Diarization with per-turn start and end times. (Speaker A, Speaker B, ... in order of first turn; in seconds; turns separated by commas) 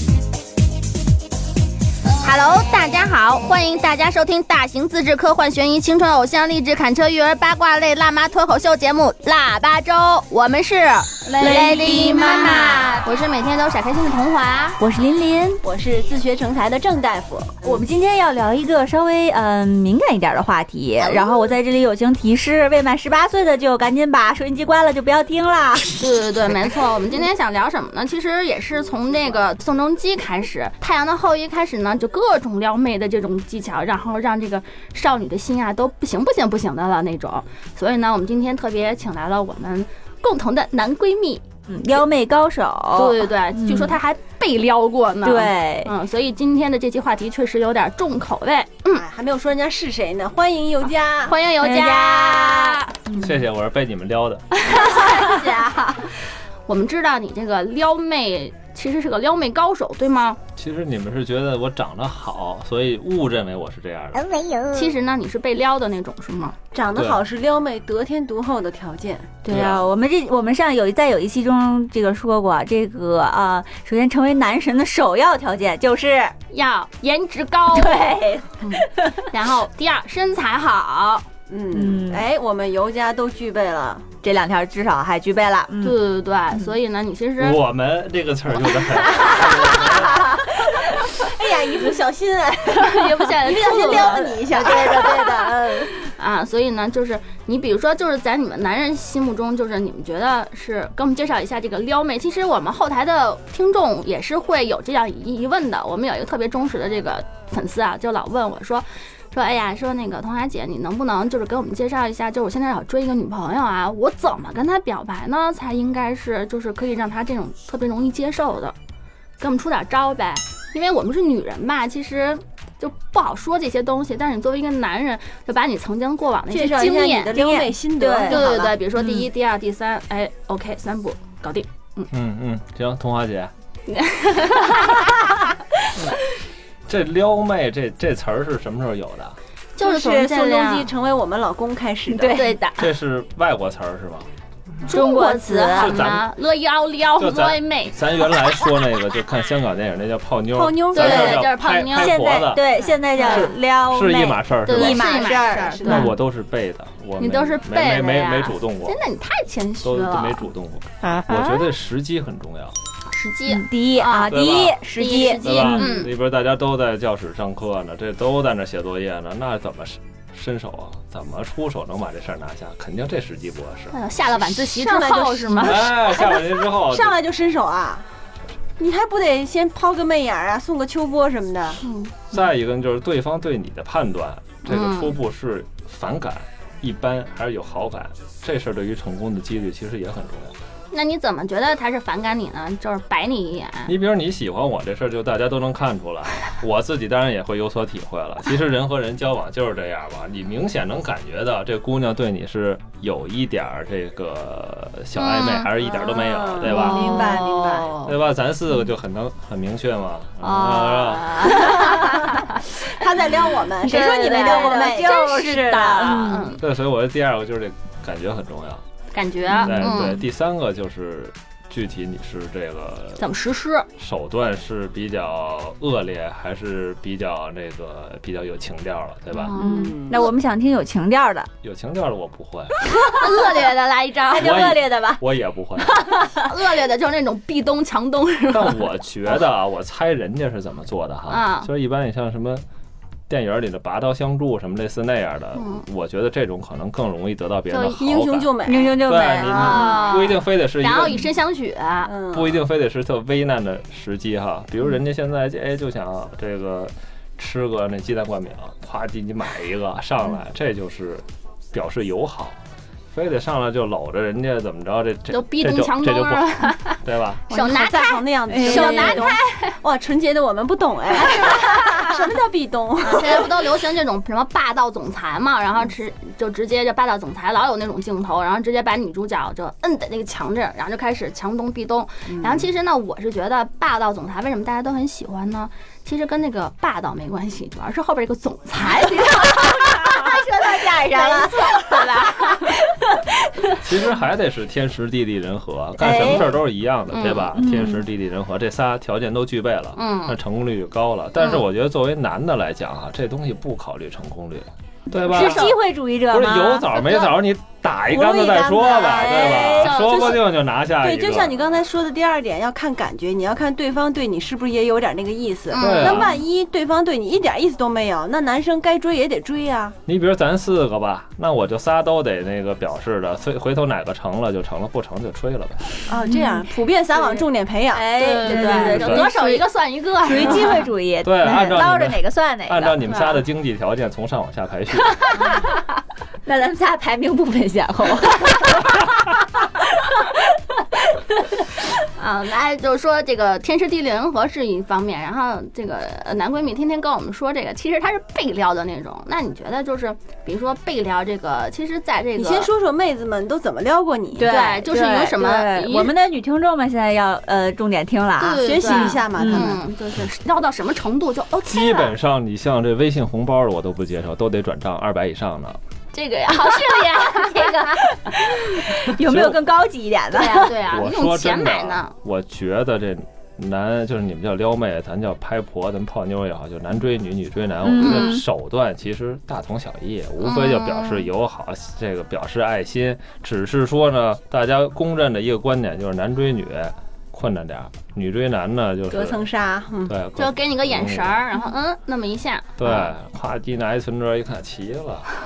Speaker A: 2.2-14.8, Speaker B: 11.3-13.0, Speaker B: 14.8-15.6, Speaker C: 15.6-17.8, Speaker B: 17.6-26.0, Speaker A: 21.0-21.4, Speaker A: 26.0-41.4, Speaker B: 41.7-44.0, Speaker A: 43.0-49.0, Speaker B: 45.2-45.9, Speaker C: 48.9-51.4, Speaker A: 51.3-52.9, Speaker B: 51.6-53.4, Speaker D: 53.2-54.5, Speaker A: 54.6-60.4, Speaker B: 54.8-55.6, Speaker D: 60.6-64.3, Speaker A: 64.6-66.6, Speaker C: 66.7-69.4, Speaker D: 67.0-67.2, Speaker B: 69.4-76.3, Speaker D: 69.5-69.9, Speaker A: 76.5-81.3, Speaker B: 77.7-79.3, Speaker C: 81.5-84.1, Speaker B: 81.7-82.2, Speaker B: 84.2-86.0, Speaker A: 85.8-87.6, Speaker D: 87.4-90.3, Speaker C: 91.1-95.9, Speaker A: 92.7-94.4, Speaker B: 93.6-95.4, Speaker A: 96.1-118.8, Speaker A: 119.4-127.7, Speaker C: 126.5-128.7, Speaker B: 128.0-129.2, Speaker A: 128.2-132.1, Speaker D: 132.1-133.5, Speaker A: 133.9-135.3, Speaker D: 136.9-139.3, Speaker A: 139.8-140.9, Speaker C: 139.8-142.5, Speaker B: 142.1-142.6, Speaker A: 142.3-142.9, Speaker D: 142.8-144.3, Speaker A: 144.9-148.1, Speaker B: 144.9-146.1, Speaker D: 145.8-146.3, Speaker D: 147.2-155.2, Speaker C: 150.5-151.4, Speaker A: 150.9-152.4, Speaker B: 151.9-156.1, Speaker A: 153.2-153.5, Speaker A: 154.7-156.1, Speaker C: 155.1-156.1, Speaker D: 155.8-159.0, Speaker A: 157.2-160.5, Speaker D: 159.8-162.8, Speaker A: 163.1-166.1, Speaker B: 163.5-165.8, Speaker D: 164.3-164.8, Speaker D: 165.4-174.0, Speaker A: 173.9-175.9, Speaker C: 174.4-178.1, Speaker D: 175.6-177.2, Speaker C: 178.8-181.8, Speaker A: 181.8-182.2, Speaker D: 182.3-190.6, Speaker A: 184.7-185.2, Speaker A: 190.9-193.9, Speaker D: 193.8-207.2, Speaker A: 205.2-205.7, Speaker C: 205.9-208.0, Speaker A: 206.6-208.1, Speaker D: 208.0-211.9, Speaker A: 210.4-212.6, Speaker C: 212.7-215.3, Speaker A: 213.8-216.6, Speaker B: 213.8-216.6, Speaker D: 216.6-218.8, Speaker A: 219.1-220.2, Speaker B: 219.5-220.1, Speaker D: 219.6-223.2, Speaker A: 223.2-223.9, Speaker D: 224.0-229.6, Speaker A: 229.3-230.0, Speaker B: 229.6-231.5, Speaker C: 229.6-230.2, Speaker D: 231.6-232.8, Speaker A: 233.1-234.8, Speaker B: 234.3-235.2, Speaker D: 234.3-236.0, Speaker B: 235.8-236.5, Speaker A: 236.3-238.9, Speaker D: 238.5-242.6, Speaker A: 241.3-241.7, Speaker D: 243.3-251.3, Speaker A: 245.6-245.8, Speaker A: 247.7-248.1, Speaker C: 248.0-249.1, Speaker B: 248.6-249.8, Speaker A: 249.4-252.1, Speaker C: 252.1-252.6, Speaker D: 252.3-262.6, Speaker D: 263.1-267.4, Speaker A: 265.3-269.8, Speaker C: 267.5-273.6, Speaker B: 268.5-269.3, Speaker A: 271.1-272.2, Speaker A: 273.0-290.3, Speaker C: 282.3-282.7, Speaker B: 288.8-293.8, Speaker A: 291.2-292.7, Speaker D: 293.8-305.8, Speaker B: 296.0-296.5, Speaker A: 297.1-297.6, Speaker B: 297.6-298.0, Speaker A: 299.9-300.4, Speaker A: 301.4-301.6, Speaker A: 305.2-305.8, Speaker B: 305.3-307.0, Speaker D: 306.3-311.7, Speaker A: 306.9-307.3, Speaker C: 308.1-310.4, Speaker B: 308.9-310.0, Speaker A: 309.1-310.5, Speaker C: 310.9-320.0, Speaker A: 315.7-316.4, Speaker D: 315.8-316.4, Speaker D: 320.1-326.0, Speaker C: 326.1-329.0, Speaker B: 326.3-326.6, Speaker B: 327.9-329.7, Speaker A: 328.2-330.9, Speaker D: 329.0-329.3, Speaker B: 330.2-333.4, Speaker D: 330.4-330.7, Speaker D: 331.2-335.4, Speaker B: 336.4-339.3, Speaker B: 340.0-340.4, Speaker A: 342.2-352.7, Speaker C: 352.4-354.6, Speaker B: 354.4-359.7, Speaker A: 354.4-356.1, Speaker A: 358.4-362.1, Speaker C: 358.6-359.8, Speaker D: 361.6-365.8, Speaker A: 366.1-368.1, Speaker B: 367.4-370.7, Speaker D: 369.2-369.6, Speaker A: 370.3-372.1, Speaker D: 370.9-389.5, Speaker B: 377.8-378.4, Speaker A: 378.0-378.4, Speaker A: 380.4-381.3, Speaker C: 389.1-390.2, Speaker D: 390.1-391.4, Speaker A: 390.4-393.1, Speaker D: 392.8-395.3